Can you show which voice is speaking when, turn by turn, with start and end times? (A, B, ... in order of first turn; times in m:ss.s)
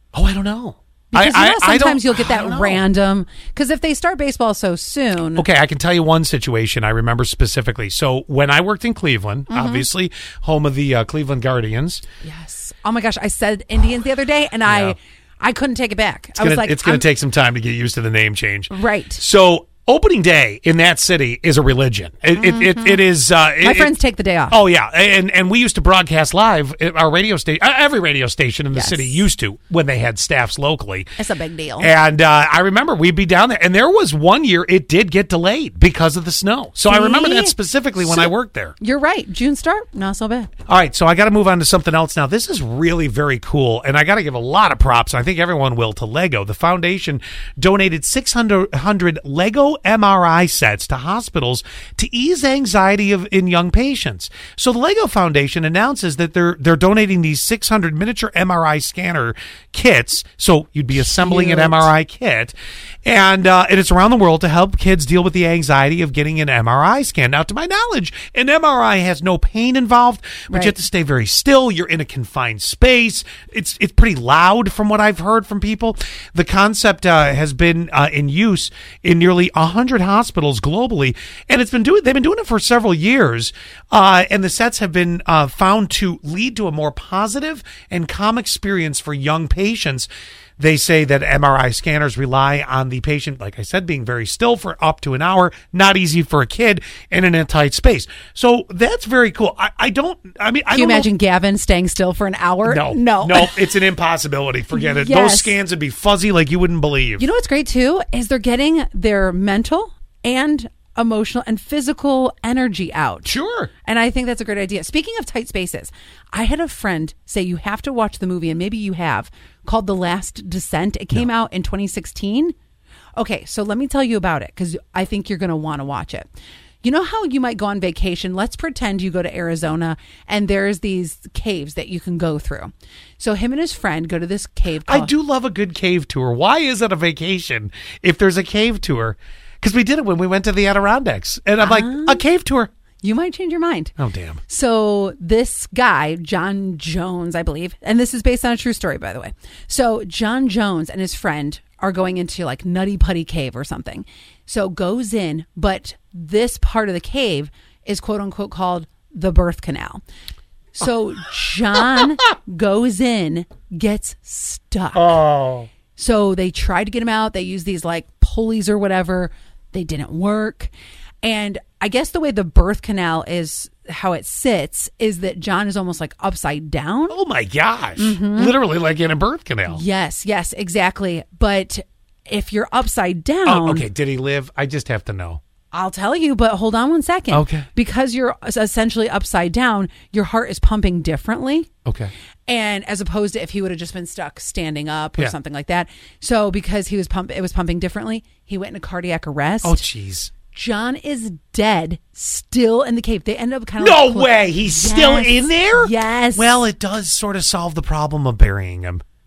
0:00.1-0:02.8 A
0:01.1-0:05.5 B
0:05.4-0:12.0 A
0:09.5-0:09.9 B
0:12.2-0:17.1 B
0:14.7-0:15.0 A
0:16.4-0:23.9 A
0:18.7-0:19.2 B
0:22.4-0:23.0 B
0:23.6-0:24.6 B
0:24.5-0:31.2 A
0:28.7-0:29.2 B
0:31.2-0:31.9 B
0:31.8-0:38.8 A
0:36.9-0:40.5 B
0:40.7-1:02.5 A
1:01.0-1:01.9 B
1:03.1-1:41.1 A
1:10.5-1:10.8 B
1:40.7-1:43.6 B
1:42.6-1:47.3 A
1:44.7-1:45.6 B
1:47.2-1:53.3 B
1:53.2-1:53.7 A
1:53.8-2:02.6 B
2:03.2-2:06.3 B
2:06.8-2:15.1 B
2:14.9-2:22.7 A
2:21.6-2:22.2 B
2:23.0-2:24.0 B
2:24.0-2:24.4 A
2:24.5-2:40.0 B
2:40.7-2:45.2 B
2:45.0-2:45.7 A
2:46.0-2:57.2 B
2:57.1-2:59.8 A
2:58.0-2:58.6 B
2:59.7-3:03.9 B
3:03.4-3:05.4 A
3:05.7-3:11.7 B
3:07.3-3:07.7 A
3:11.9-3:12.1 A
3:12.5-3:19.8 B
3:19.6-3:20.3 A
3:20.5-3:26.5 B
3:23.8-3:29.0 A